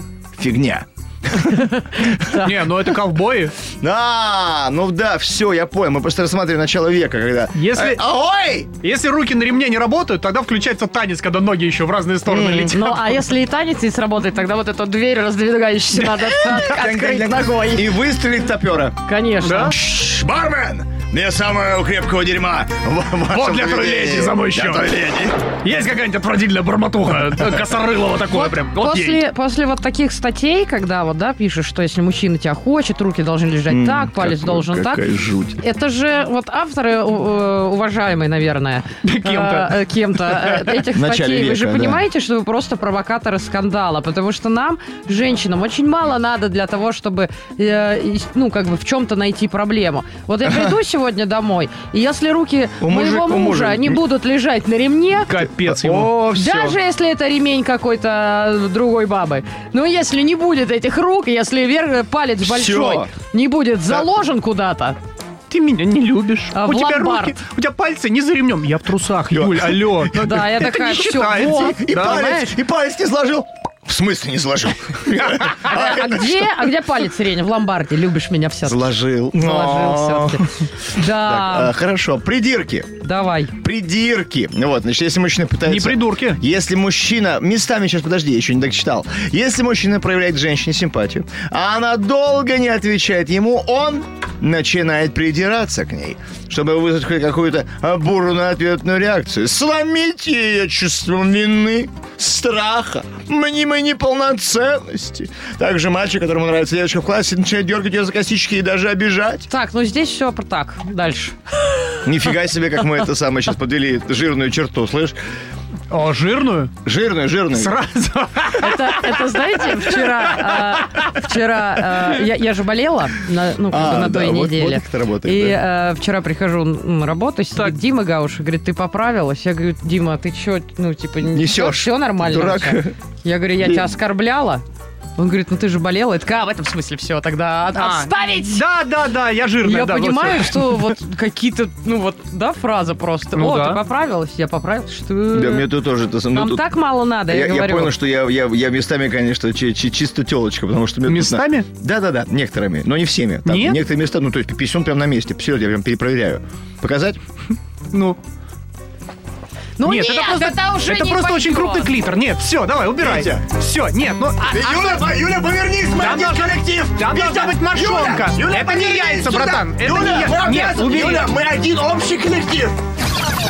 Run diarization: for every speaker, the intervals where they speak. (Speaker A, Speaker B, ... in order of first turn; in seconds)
Speaker A: 0.3-2.5, 3.7-8.7, 12.2-12.7, 16.3-19.0, 19.6-25.4, 33.7-35.6, 40.8-42.0, 52.8-54.0, 55.5-56.8, 62.4-63.1, 69.3-70.5, 71.3-76.7, 78.6-80.5, 81.0-83.0, 83.6-109.5, 112.0-115.2, 116.8-117.8, 123.7-125.6, 131.3-132.9, 133.6-133.9, 145.3-146.7, 147.3-157.2, 163.0-163.4, 164.4-172.8
Speaker B: 2.2-3.5, 7.5-8.0, 8.8-13.2, 19.4-19.7, 23.3-29.2, 39.0-40.6, 55.2-56.1, 65.5-72.2, 85.6-86.4, 115.9-116.7, 117.5-121.1, 137.7-140.9, 143.3-143.8, 151.1-151.7, 153.4-153.8, 157.9-158.2, 159.8-165.1, 165.9-171.3
Speaker C: 12.7-18.0, 19.0-19.8, 28.3-35.1, 35.6-55.4, 56.3-65.0, 66.5-67.4, 70.1-72.6, 75.5-81.7, 83.0-83.5, 109.5-112.0, 118.6-134.6, 135.2-138.6, 139.6-145.7, 146.3-147.9, 159.8-161.9